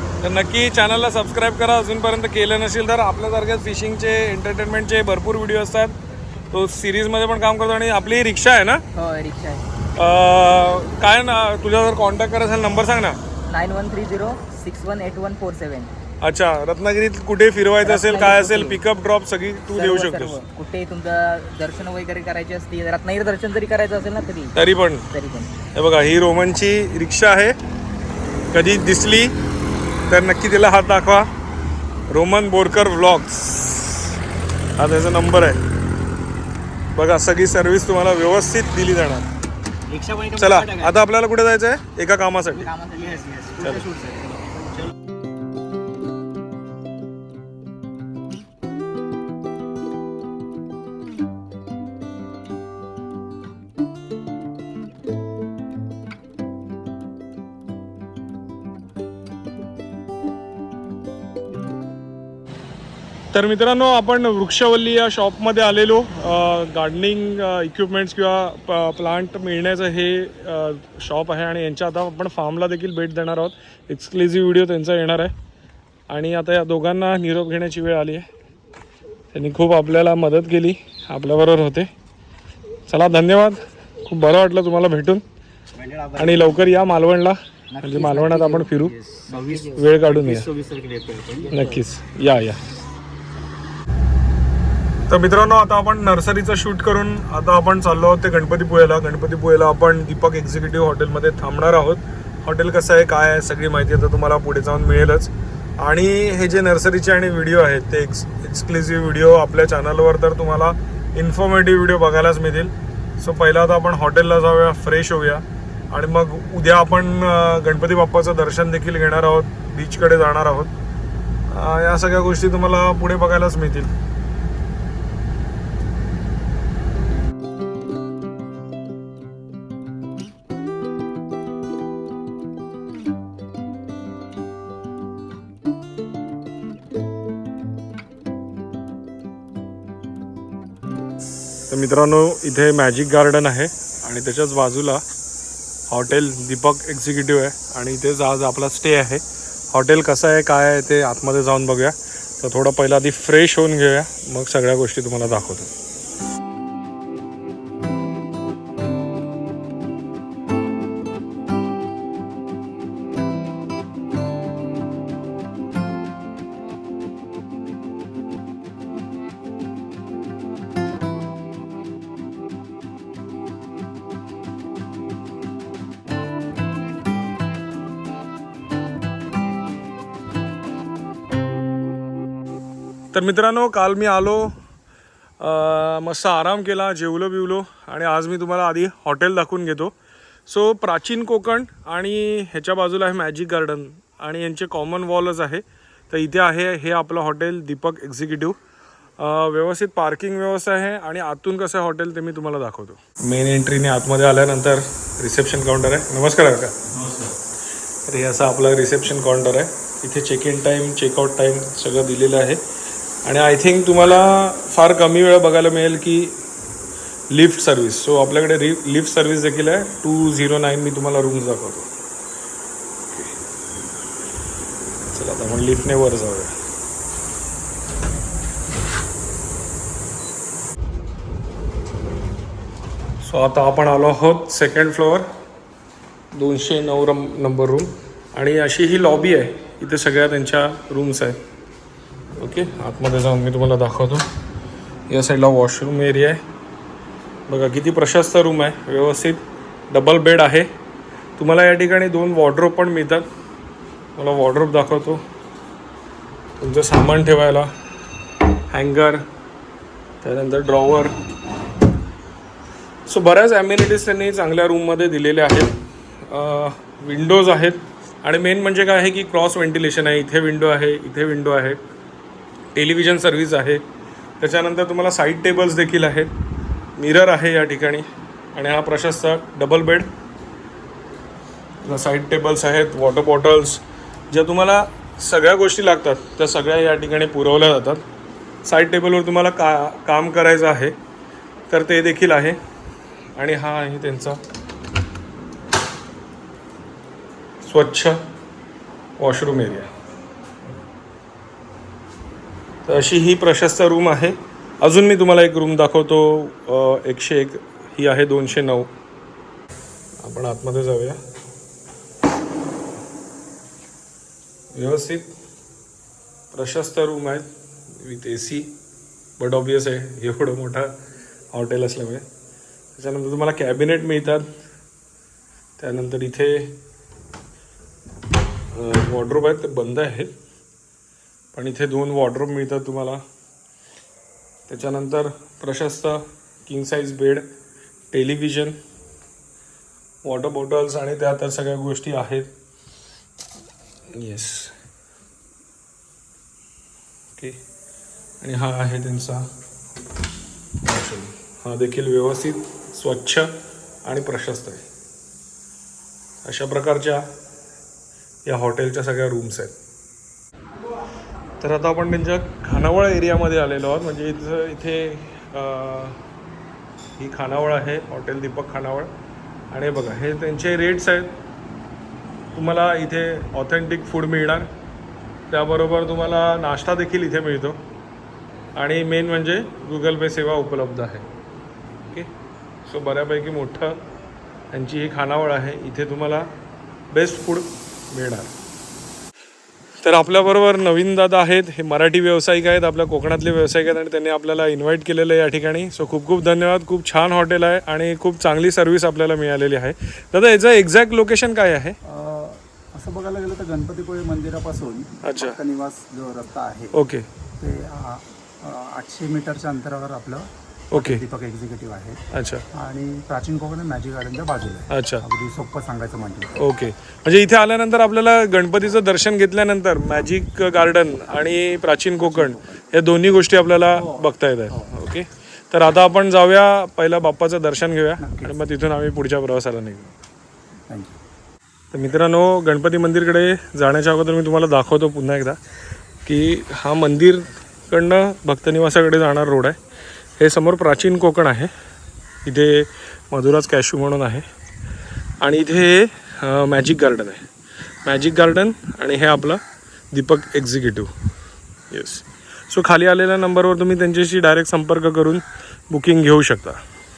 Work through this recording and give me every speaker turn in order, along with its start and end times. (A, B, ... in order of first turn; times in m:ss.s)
0:00.2-0:06.0 A
0:06.5-0:08.8 A
0:09.0-0:09.6 B
0:10.0-0:13.2 A
0:13.5-0:15.9 B
0:16.2-0:20.4 A
0:17.8-0:18.8 B
0:19.7-0:24.5 B
0:24.5-0:25.1 A
0:25.1-0:25.5 B
0:25.8-0:27.6 A
0:28.5-0:29.4 A
0:30.1-0:31.3 A
0:32.1-0:34.2 A
0:34.8-0:35.6 A
0:36.9-0:39.2 A
0:40.3-0:42.7 A
0:42.6-0:43.2 B
0:43.6-0:43.9 A
1:03.3-1:15.3 A
1:16.1-1:18.3 A
1:19.3-1:21.9 A
1:22.9-1:25.2 A
1:26.2-1:29.0 A
1:29.3-1:29.8 C
1:29.7-1:30.5 A
1:31.5-1:32.6 A
1:35.1-2:00.7 A
2:01.5-2:03.9 A
2:21.7-2:25.0 A
2:25.9-2:35.7 A
3:03.1-3:04.5 A
3:05.4-3:09.9 A
3:10.5-3:18.6 A
3:19.2-3:26.8 A
3:28.1-3:32.6 A
3:33.2-3:36.4 A
3:37.3-3:41.9 A
3:45.1-3:46.5 A
3:53.2-3:55.3 A
3:56.3-4:01.4 A
4:02.4-4:04.2 A
4:05.1-4:06.4 A
4:07.5-4:10.7 A
4:11.4-4:13.2 A
4:14.2-4:15.2 A
4:16.6-4:17.7 A
4:18.7-4:19.2 A
4:20.2-4:21.1 A
4:23.1-4:25.7 A
4:26.3-4:31.8 A
4:32.7-4:33.8 A
4:34.4-4:36.3 A
4:37.0-4:40.1 A
4:41.8-4:48.0 A
4:48.6-4:51.0 A
4:51.7-4:52.6 A
4:53.4-4:54.4 A
4:57.6-4:58.2 A
4:59.2-4:59.9 A
5:02.8-5:08.9 A
5:10.2-5:11.2 A
5:14.8-5:15.3 A
5:16.5-5:18.7 A
5:19.4-5:21.0 A
5:21.5-5:22.2 A
5:23.0-5:24.5 A
5:25.8-5:26.8 A
5:28.7-5:30.3 A
5:31.5-5:33.2 A
5:34.7-5:37.5 A
5:38.1-5:38.8 A
5:40.2-5:42.5 A
5:44.1-5:44.8 A
5:48.4-5:49.5 A
5:50.8-5:53.5 A
5:54.1-5:54.8 A
5:56.4-5:57.3 A
5:58.4-5:59.7 A
6:01.6-6:06.2 A
6:07.2-6:09.1 A
6:09.7-6:11.4 A
6:12.6-6:14.7 A
6:15.5-6:17.8 A
6:18.8-6:21.3 A
6:22.9-6:24.0 A
6:24.7-6:26.5 A
6:27.1-6:28.5 A
6:30.0-6:42.0 A
6:42.1-6:46.9 C
6:45.2-6:45.6 A
6:46.9-6:47.3 A
6:47.6-6:52.2 C
6:50.9-6:51.2 A
6:52.3-6:52.6 A
6:52.8-6:56.5 C
6:54.9-6:55.2 A
6:56.6-7:10.1 A
7:02.2-7:02.8 C
7:03.9-7:04.9 C
7:08.2-7:08.6 C
7:10.9-7:11.2 C
7:11.9-7:15.6 A
7:16.2-7:19.8 A
7:20.4-7:21.7 A
7:22.4-7:24.4 A
7:25.4-7:27.4 A
7:28.0-7:31.1 A
7:31.9-7:36.8 A